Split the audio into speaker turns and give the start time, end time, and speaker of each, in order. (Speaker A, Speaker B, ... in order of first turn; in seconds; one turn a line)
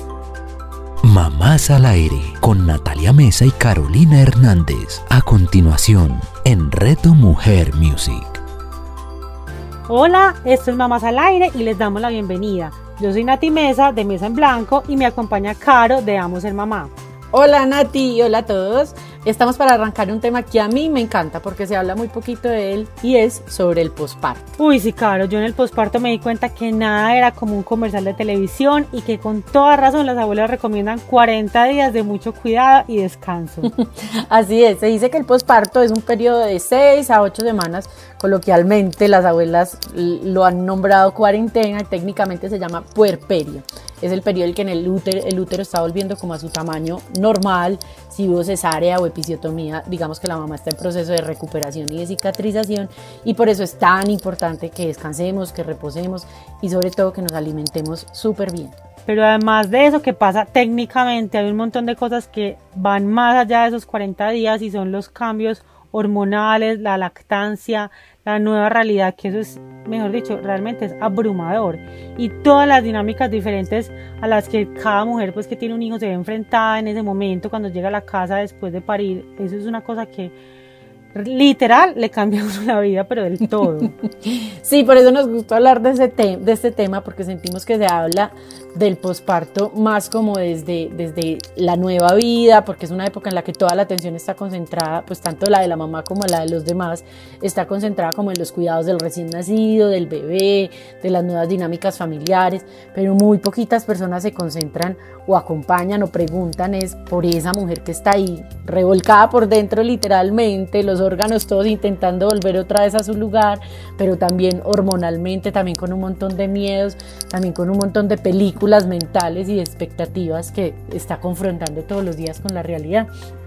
Speaker A: 1.0-8.4
Speaker B: 9.9-16.9
Speaker C: 17.3-24.5
Speaker B: 24.6-33.7
Speaker C: 33.7-58.8
Speaker B: 59.1-80.3
Speaker B: 81.1-83.9
Speaker C: 83.8-123.1